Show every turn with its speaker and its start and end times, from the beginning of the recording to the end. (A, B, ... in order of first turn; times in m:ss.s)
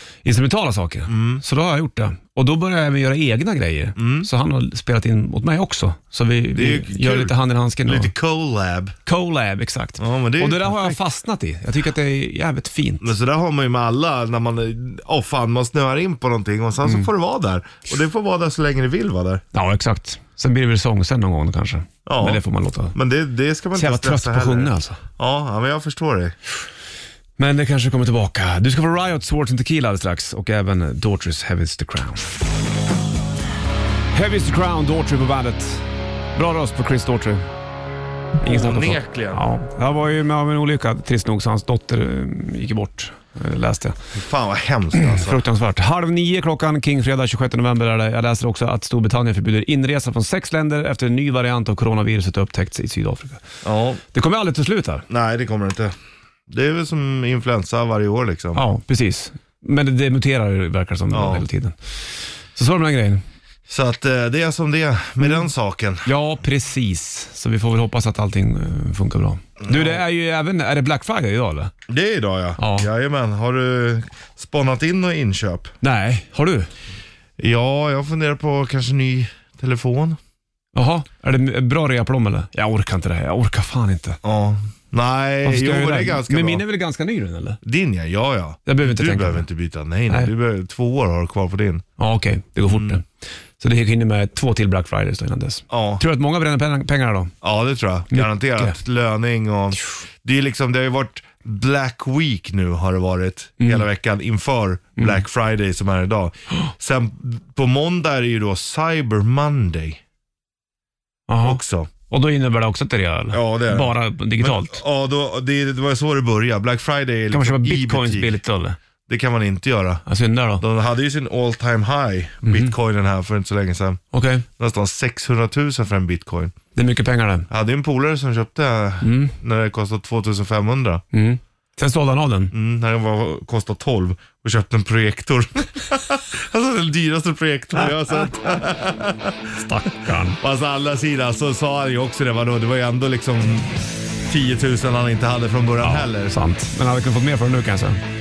0:00.2-0:08.1 A
0:01.1-0:01.4 B
0:04.0-0:04.3 B
0:06.6-0:07.3 B
0:07.9-0:09.0 B
0:09.1-0:13.1 A
0:10.0-0:11.0 B
0:13.0-0:19.4 B
0:19.5-0:22.9 A
0:22.1-0:22.4 B
0:22.9-0:26.3 B
0:23.8-0:25.0 A
0:27.4-0:32.3 A
0:34.1-0:37.4 A
0:38.4-0:39.4 B
0:38.4-0:44.0 A
0:44.2-0:45.4 B
0:45.0-0:53.4 A
0:53.6-0:54.0 B
0:54.1-0:55.1 A
0:55.1-0:56.0 B
0:56.5-0:58.6 B
0:58.6-1:03.2 A
1:01.1-1:01.4 B
1:03.7-1:06.1 B
1:06.1-1:11.7 A
1:09.6-1:10.0 B
1:11.9-1:15.7 B
1:12.6-1:12.9 A
1:15.8-1:16.7 A
1:17.4-1:20.2 B
1:20.8-1:24.2 A
1:24.2-1:26.6 B
1:25.4-1:27.6 A
1:27.6-1:31.8 B
1:28.7-1:29.5 A
1:32.0-1:33.1 A
1:32.7-1:33.0 B
1:33.6-1:37.3 A
1:35.7-1:36.0 B
1:37.4-1:50.0 B
1:38.1-1:38.8 A
1:51.3-1:54.8 A
1:51.4-1:51.9 B
1:53.3-1:58.4 B
1:57.3-1:58.8 A
1:59.1-2:00.0 B
2:00.1-2:00.6 A
2:00.6-2:04.0 B
2:02.5-2:02.7 A
2:04.1-2:04.4 A
2:04.6-2:06.6 B
2:06.8-2:07.5 A
2:07.5-2:11.0 B
2:09.0-2:09.3 A
2:11.1-2:12.5 A
2:12.5-2:19.5 B
2:19.6-2:20.4 A
2:20.4-2:23.7 B
2:24.3-2:26.3 B
2:25.8-2:28.0 A